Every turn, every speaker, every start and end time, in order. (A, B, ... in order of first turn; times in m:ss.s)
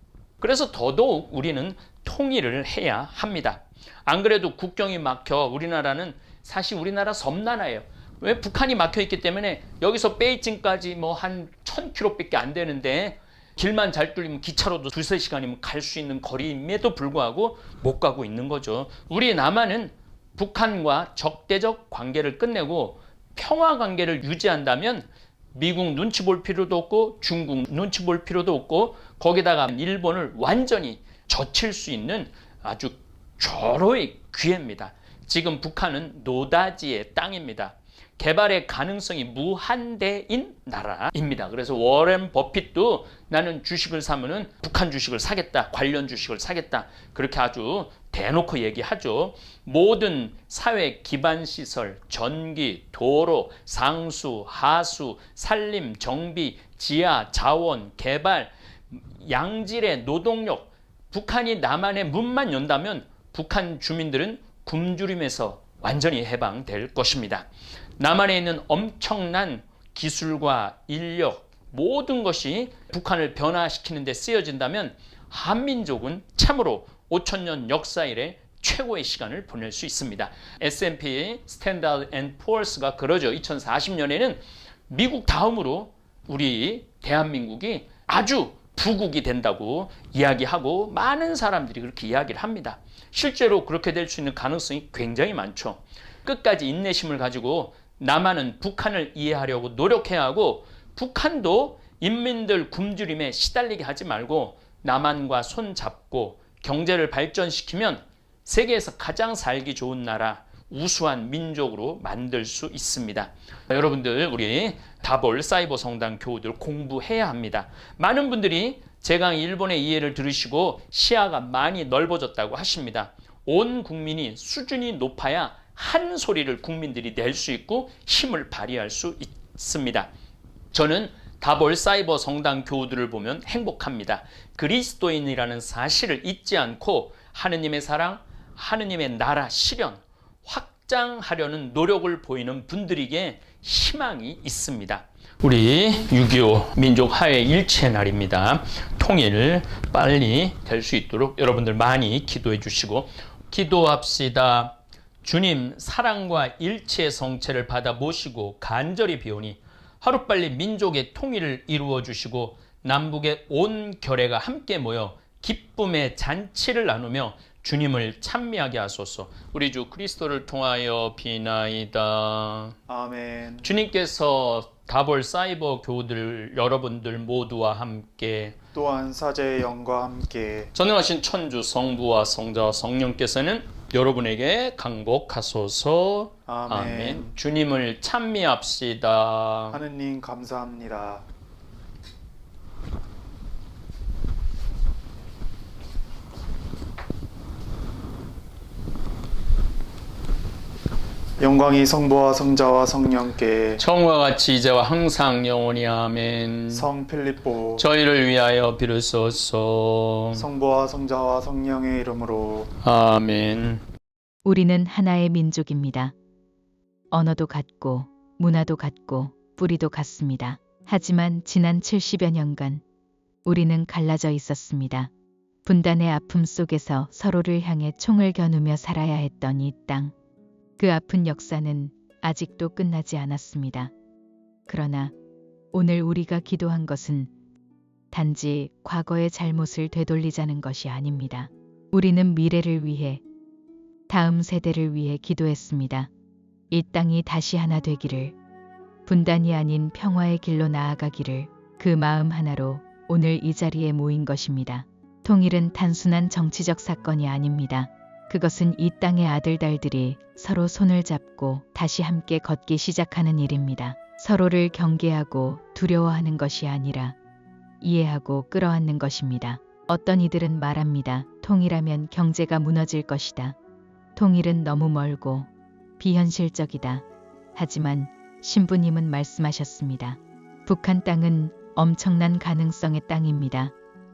0:00.4-1:07.5 A
1:08.0-2:10.1 A
2:10.7-2:52.8 A
2:52.9-2:53.7 B
2:53.6-2:58.6 A
2:58.7-3:00.7 B
3:00.7-3:09.8 A
3:06.5-3:07.3 B
3:09.7-3:11.2 B
3:21.4-3:23.8 B
3:23.8-3:26.9 A
3:26.7-3:27.8 B
3:27.7-3:30.5 A
3:30.3-3:32.7 B
3:32.8-3:33.8 A
3:34.4-3:36.1 C
3:37.1-3:42.8 C
3:43.4-3:45.1 C
3:45.6-3:50.1 C
3:50.8-3:53.9 C
3:54.7-3:55.1 C
3:55.7-3:57.3 C
3:58.1-4:03.2 C
4:04.1-4:06.1 C
4:06.7-4:08.4 C
4:09.0-4:27.2 C
4:27.8-4:33.6 C
4:34.2-4:43.7 C